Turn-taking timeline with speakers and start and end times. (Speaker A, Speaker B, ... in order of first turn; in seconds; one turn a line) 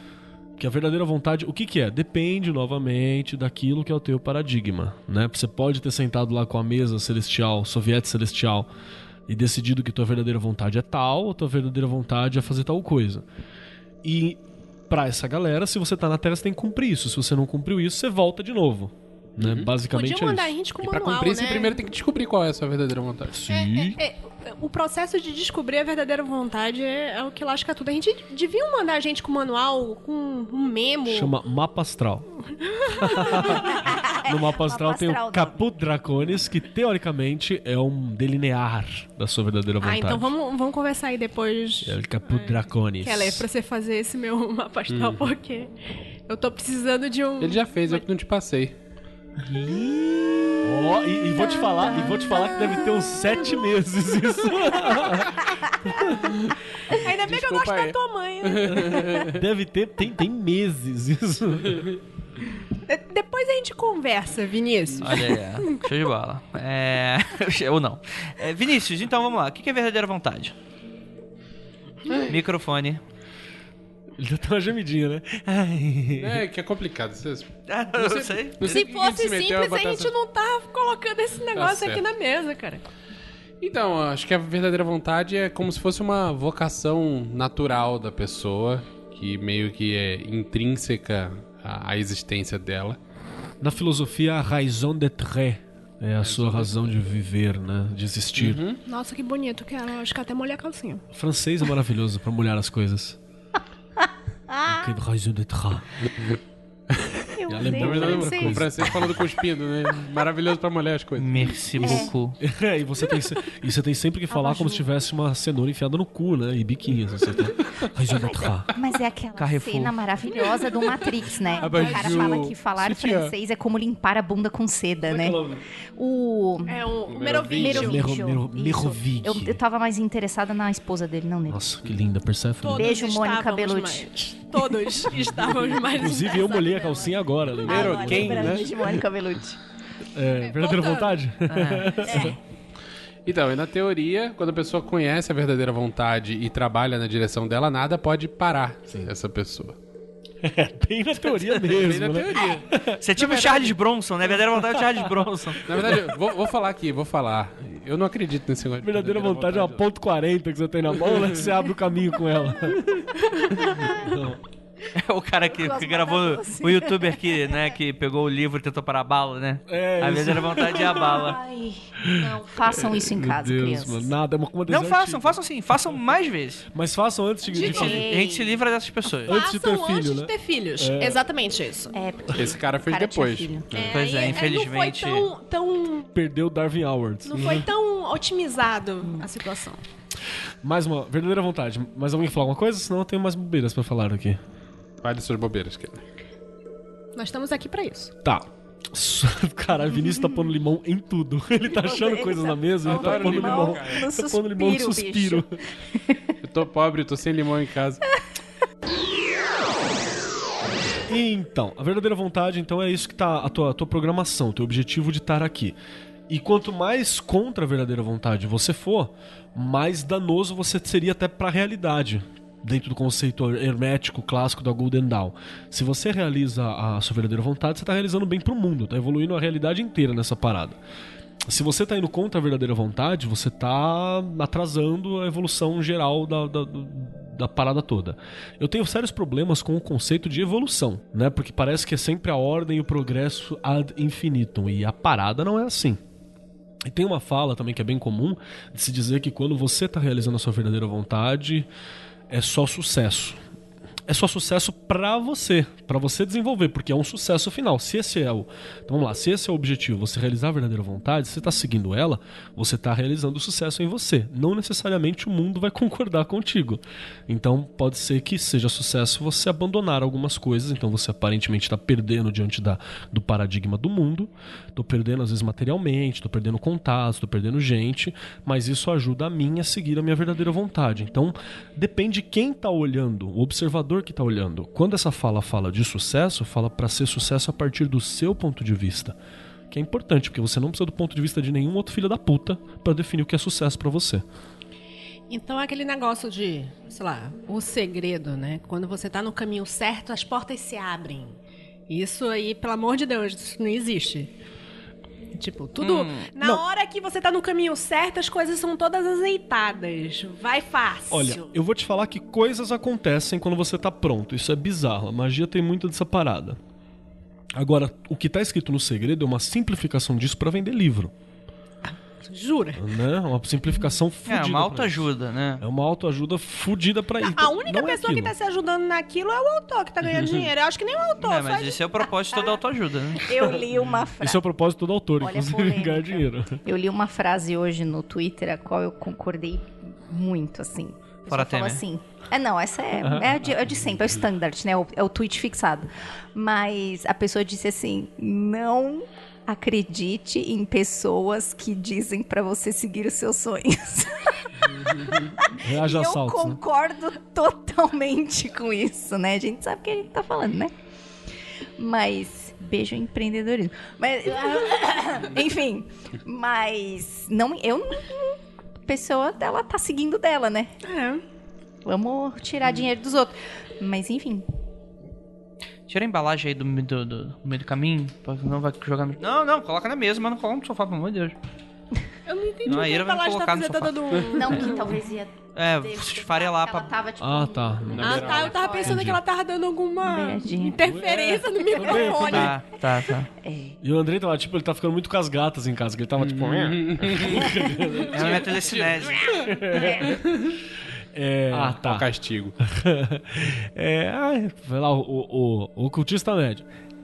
Speaker A: 0.6-8.7
Speaker A: 9.3-13.2
Speaker A: 14.0-20.5
Speaker B: 19.4-19.7
Speaker C: 19.9-21.8
Speaker B: 20.9-23.4
Speaker A: 23.3-24.0
Speaker C: 23.5-31.3
Speaker A: 31.1-32.3
Speaker C: 32.6-33.6
Speaker A: 32.8-40.3
Speaker D: 33.5-35.6
Speaker C: 39.8-45.7
Speaker A: 41.8-43.5
Speaker B: 44.9-45.2
Speaker C: 46.3-48.0
Speaker B: 47.4-48.8
Speaker A: 49.5-56.3
Speaker C: 57.0-59.2
Speaker B: 57.2-59.4
Speaker A: 59.1-61.9
Speaker C: 62.9-65.8
Speaker E: 65.0-70.5
Speaker E: 72.3-73.0
Speaker A: 74.2-76.4
Speaker B: 76.2-80.1
Speaker E: 77.7-78.8
Speaker C: 78.6-82.8
Speaker B: 81.6-82.0
Speaker B: 83.6-93.0
Speaker A: 93.6-98.6
Speaker B: 96.2-96.9
Speaker B: 98.4-98.8
Speaker C: 98.9-101.0
Speaker A: 101.1-103.2
Speaker D: 104.5-104.9
Speaker A: 104.7-106.1
Speaker D: 107.4-108.6
Speaker A: 107.5-109.3
Speaker B: 107.6-112.1
Speaker E: 111.2-112.4
Speaker D: 111.8-112.1
Speaker A: 111.8-118.7
Speaker D: 114.3-114.8
Speaker D: 118.1-125.4
Speaker E: 119.4-119.9
Speaker C: 121.5-122.4
Speaker B: 121.6-123.3
Speaker A: 125.1-125.6
Speaker D: 126.0-126.8
Speaker C: 126.7-128.1
Speaker B: 127.1-127.9
Speaker D: 127.6-131.7
Speaker A: 127.7-129.6
Speaker A: 131.5-132.9
Speaker C: 132.6-137.1
Speaker D: 132.7-134.1
Speaker A: 135.9-138.7
Speaker D: 136.6-137.0
Speaker B: 137.6-138.8
Speaker D: 137.6-139.6
Speaker A: 140.2-142.4
Speaker C: 140.4-141.2
Speaker E: 141.5-142.2
Speaker D: 142.1-142.4
Speaker B: 143.3-149.8
Speaker A: 150.4-153.0
Speaker B: 151.6-153.7
Speaker E: 153.0-155.6
Speaker A: 154.7-156.1
Speaker B: 155.7-159.8
Speaker A: 158.8-164.4
Speaker E: 164.9-171.4
Speaker D: 165.5-167.6
Speaker A: 169.7-171.3
Speaker D: 170.7-174.1
Speaker A: 172.0-175.4
Speaker E: 174.7-176.7
Speaker A: 176.7-178.0
Speaker C: 177.5-178.0
Speaker D: 177.5-178.6
Speaker E: 177.6-179.4
Speaker A: 179.3-181.2
Speaker C: 179.3-181.9
Speaker D: 181.9-183.7
Speaker B: 182.3-184.0
Speaker C: 183.7-186.1
Speaker E: 183.9-185.3
Speaker A: 186.1-187.6
Speaker C: 187.3-189.8
Speaker B: 187.4-187.6
Speaker A: 190.6-194.4
Speaker B: 195.0-196.0
Speaker C: 197.2-198.1
Speaker A: 198.2-205.6
Speaker D: 201.7-206.2
Speaker B: 202.8-204.1
Speaker B: 206.4-208.0
Speaker A: 211.1-215.8
Speaker A: 216.3-230.8
Speaker A: 231.5-246.0
Speaker A: 246.8-251.7
Speaker A: 252.3-253.4
Speaker A: 254.1-289.2
Speaker A: 289.7-294.2
Speaker C: 295.3-301.4
Speaker C: 301.9-304.3
Speaker C: 305.4-311.5
Speaker E: 305.8-306.3
Speaker A: 311.1-316.6
Speaker A: 317.6-321.1
Speaker C: 321.9-322.9
Speaker A: 322.8-328.3
Speaker E: 324.3-325.6
Speaker C: 327.2-331.8
Speaker E: 331.2-333.3
Speaker D: 333.2-334.4
Speaker A: 333.9-336.6
Speaker D: 335.2-360.7
Speaker E: 341.3-341.8
Speaker A: 343.0-343.4
Speaker B: 354.8-355.3
Speaker A: 355.6-356.6
Speaker D: 361.8-370.7
Speaker C: 370.8-371.2
Speaker D: 371.9-374.4
Speaker E: 375.9-381.4
Speaker C: 382.3-385.0
Speaker E: 382.7-384.3
Speaker D: 384.4-389.0
Speaker E: 385.6-386.9
Speaker A: 387.2-389.2
Speaker B: 387.9-388.7
Speaker C: 388.0-392.6
Speaker D: 390.0-391.0
Speaker A: 390.8-392.6
Speaker D: 391.8-392.1
Speaker E: 392.3-393.3
Speaker D: 393.4-393.8
Speaker A: 393.8-398.5
Speaker B: 396.2-399.3
Speaker D: 397.6-397.9
Speaker E: 398.1-399.4
Speaker A: 399.4-400.2
Speaker D: 399.8-400.2
Speaker A: 401.1-402.1
Speaker B: 401.5-402.6
Speaker A: 402.6-406.7